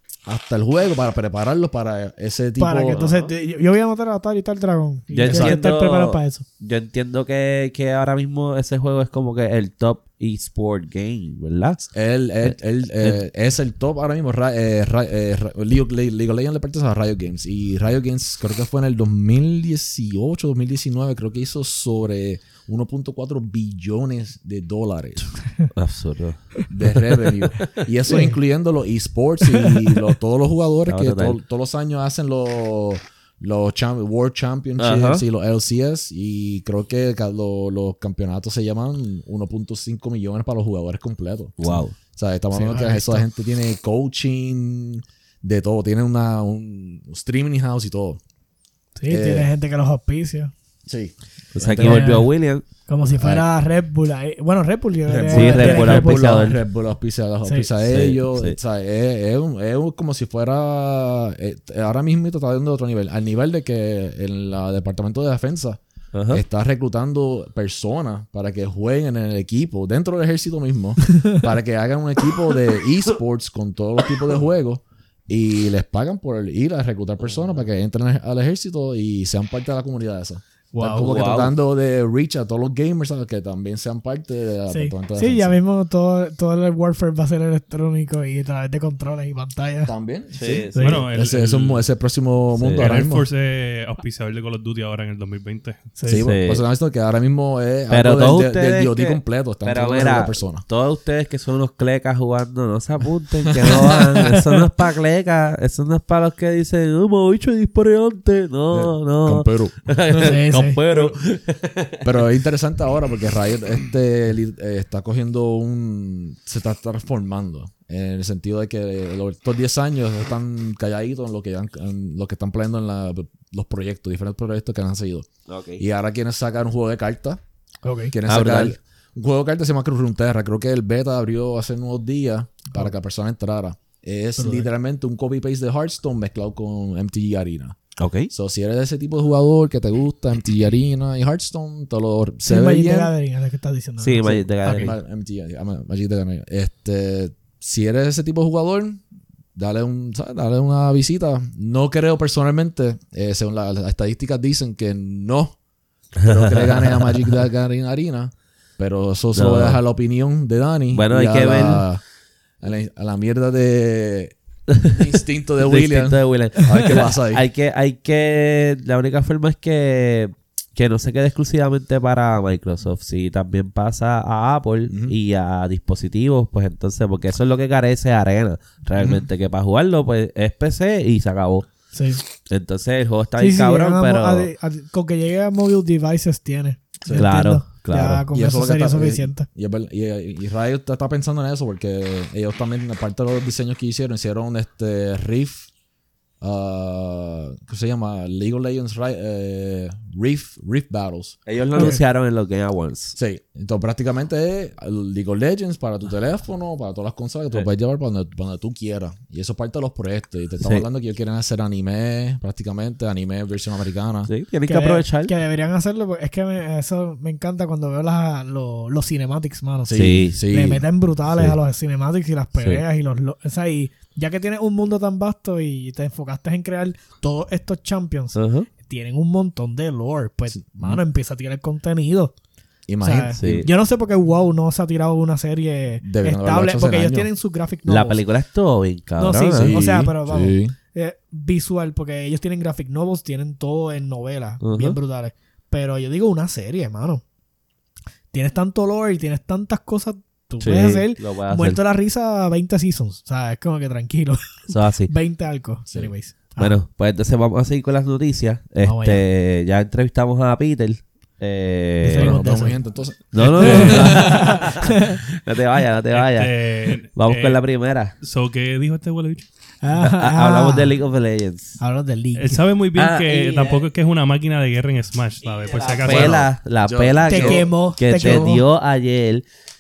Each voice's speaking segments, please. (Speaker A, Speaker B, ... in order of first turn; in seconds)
Speaker A: 0.3-3.0, 5.2-5.6, 11.9-25.3, 26.7-48.2, 49.1-49.5, 50.9-52.2, 53.2-53.5, 55.1-85.6, 89.9-93.3, 96.1-100.6, 103.6-104.2, 108.7-110.4, 112.0-127.4, 128.1-137.8, 138.3-143.1, 144.2-149.0, 149.6-155.6, 156.2-162.0, 162.6-164.3, 164.9-167.4, 174.9-175.2, 179.0-179.2, 187.0-187.3, 188.3-195.7, 196.4-202.0, 203.2-214.3, 219.9-220.8, 230.6-231.0, 232.9-233.7, 236.0-237.3, 239.6-240.8, 262.1-264.6, 276.0-277.7
Speaker B: 2.6-6.5, 28.1-28.4, 42.5-43.2, 49.0-50.5, 51.8-52.3, 52.9-56.6, 57.4-57.7, 80.7-81.1, 84.7-89.9, 90.8-91.0, 96.0-96.3, 110.2-110.8, 127.8-128.1, 134.4-134.7, 142.5-144.9, 181.9-182.2, 183.4-189.5, 201.8-202.0, 214.7-232.3, 233.0-238.2, 239.2-247.2, 248.3-256.8, 258.8-259.2, 262.0-262.8, 263.6-265.2, 269.8-270.9, 271.8-272.6, 277.3-278.6
Speaker C: 3.0-3.3, 5.1-11.8, 12.4-13.2, 25.7-27.7, 30.9-31.4, 34.8-35.2, 41.6-42.0, 51.5-52.6, 55.3-56.6, 57.8-58.6, 66.1-66.4, 81.0-81.5, 90.3-91.1, 92.6-92.9, 96.2-96.6, 97.9-112.3, 125.5-125.8, 128.3-128.8, 138.0-138.3, 144.0-145.0, 156.2-157.2, 159.3-159.8, 160.9-161.8, 164.7-165.1, 165.6-181.7, 182.4-184.5, 187.1-188.2, 201.5-203.2, 210.6-210.9, 214.3-215.3, 219.9-220.4, 222.6-222.8, 228.3-228.7, 233.4-233.7, 237.9-239.8, 244.6-245.0, 250.6-251.8, 254.7-255.1, 256.6-262.4, 263.3-268.1, 270.0-271.8, 272.9-273.9, 275.4-279.4
Speaker D: 90.8-91.9, 92.8-95.9, 263.4-264.4, 266.1-267.6, 268.2-269.4, 272.4-276.5